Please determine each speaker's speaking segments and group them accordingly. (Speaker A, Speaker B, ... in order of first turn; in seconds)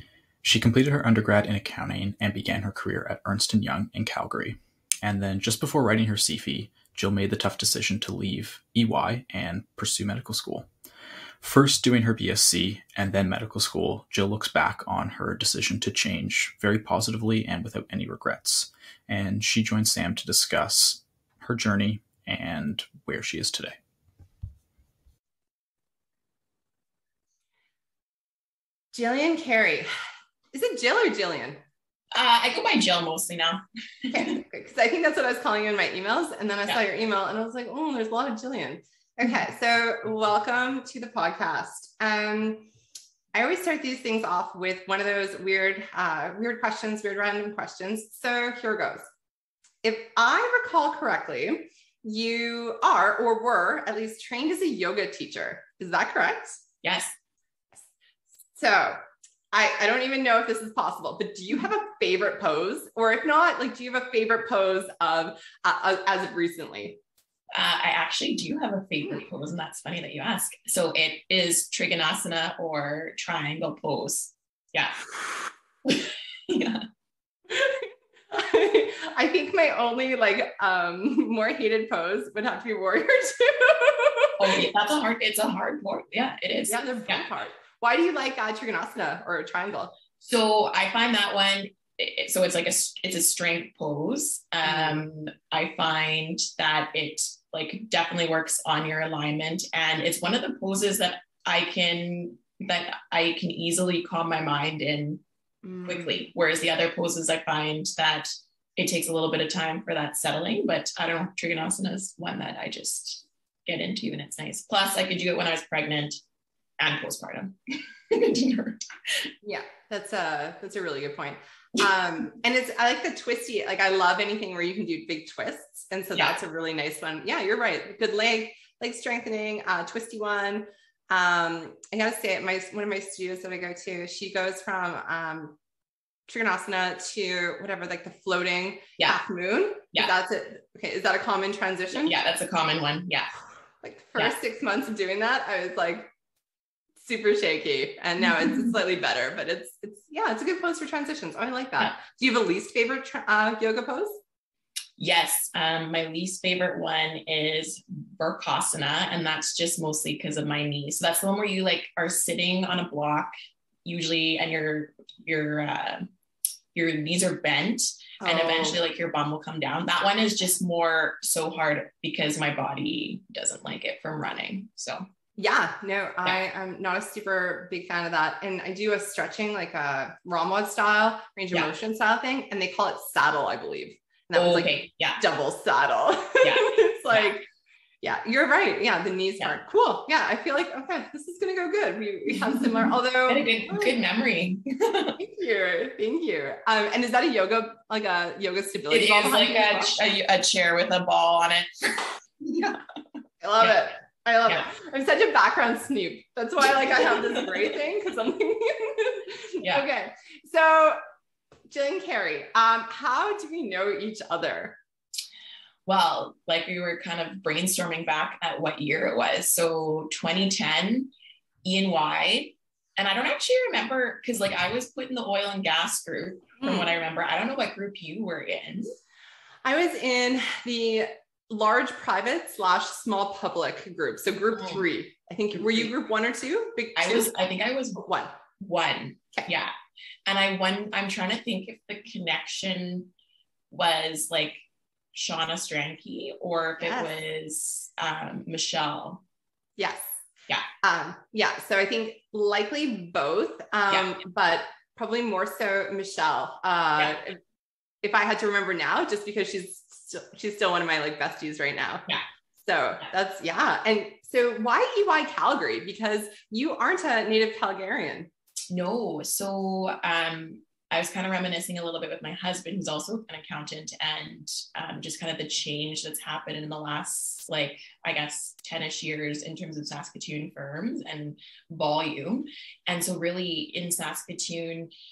Speaker A: 0.4-10.7, 11.4-23.8
Speaker B: 28.9-29.9, 30.5-31.6, 34.1-42.7, 43.3-49.1, 49.8-56.6, 58.5-59.0, 59.5-67.0, 77.5-84.5, 86.7-90.0, 94.7-95.0, 105.7-106.2, 119.4-135.6, 136.3-142.2, 143.8-146.1, 147.0-154.2, 168.2-168.8, 175.4-187.5, 188.0-194.0, 195.2-200.0, 203.4-211.0, 211.7-214.8, 226.6-226.9, 229.7-237.3, 238.0-238.4, 246.8-247.2, 249.8-250.1, 250.8-257.4, 258.0-262.1, 262.6-268.3
Speaker C: 32.1-34.4, 56.8-57.1, 67.5-75.0, 75.8-76.8, 84.4-87.3, 90.2-105.2, 105.8-116.2, 116.8-117.6, 118.1-119.3, 141.9-143.3, 148.4-148.7, 155.0-163.3, 163.8-166.1, 166.7-175.0, 184.3-185.2, 186.4-187.3, 192.5-195.2, 198.9-202.8, 206.9-207.7, 215.9-221.1, 221.6-228.9, 235.5-235.9, 237.0-238.0, 238.6-239.7, 240.3-243.1, 243.7-244.6, 245.1-249.2, 253.9-254.2, 268.7-284.9